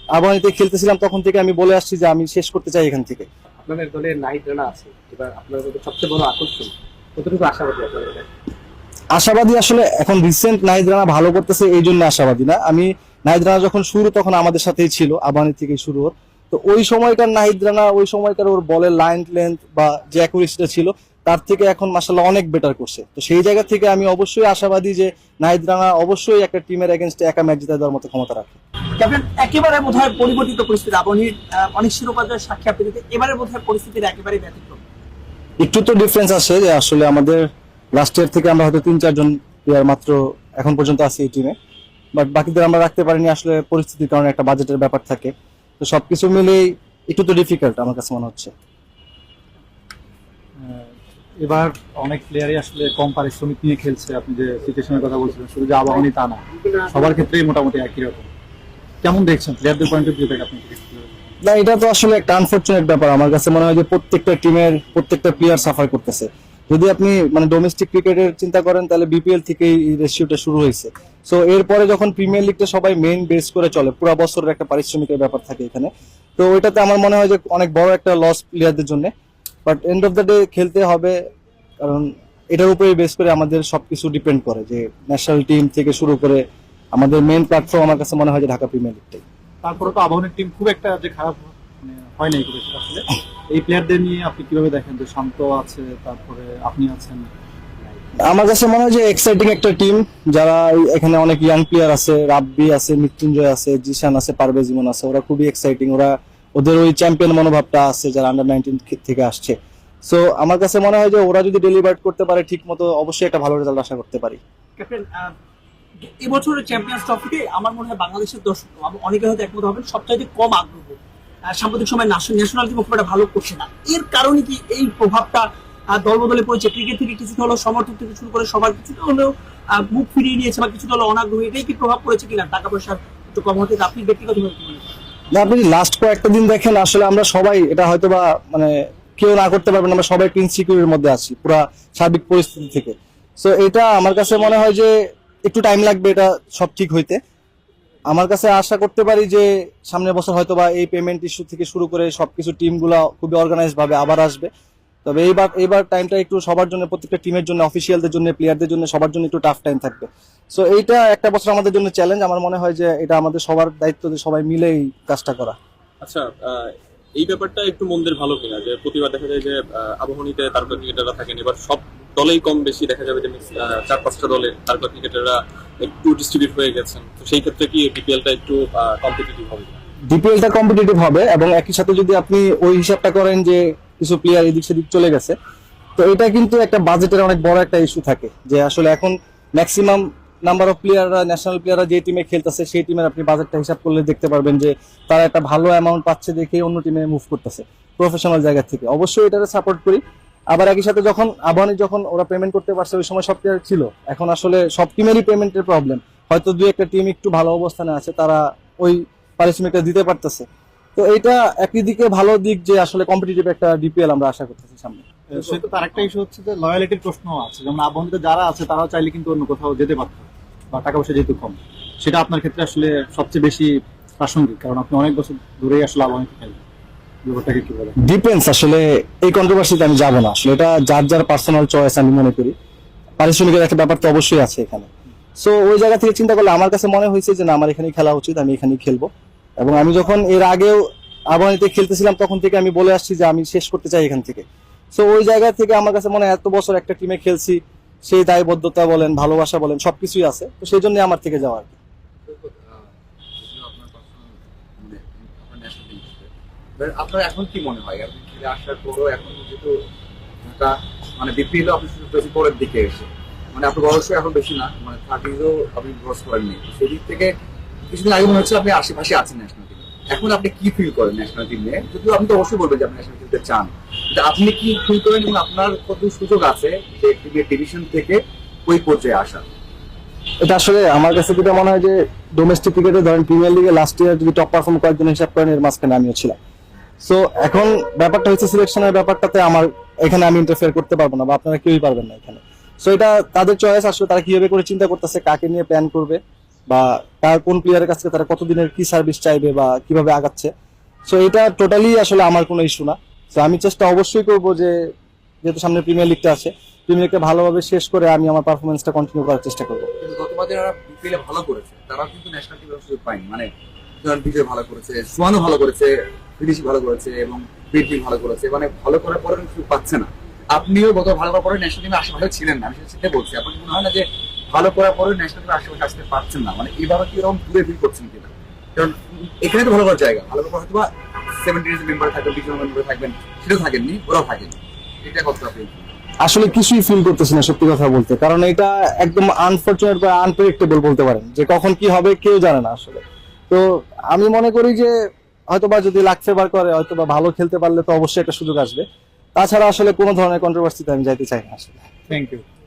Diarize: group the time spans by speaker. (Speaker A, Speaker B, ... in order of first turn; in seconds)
Speaker A: 0.1-3.2, 9.1-28.6, 35.6-41.5, 42.1-48.5, 61.4-79.1, 79.7-81.2, 81.8-89.2, 98.2-114.4, 135.3-144.9, 145.4-147.2, 148.1-154.5, 155.0-165.6, 180.1-185.3, 186.0-215.1, 228.0-232.5, 233.2-251.8, 280.4-286.4, 287.0-300.5, 301.1-304.7, 305.4-309.9, 336.2-344.9, 345.5-351.9
Speaker B: 3.6-8.3
Speaker C: 29.0-34.8, 114.8-115.3, 116.2-121.0, 121.5-134.8
Speaker D: 50.6-58.3, 59.0-61.2, 89.6-97.3, 215.3-226.6, 227.2-227.9, 352.1-352.4
Speaker E: 166.0-179.8
Speaker F: 252.2-259.8, 260.4-267.3, 267.9-279.5, 310.0-313.5, 314.0-335.9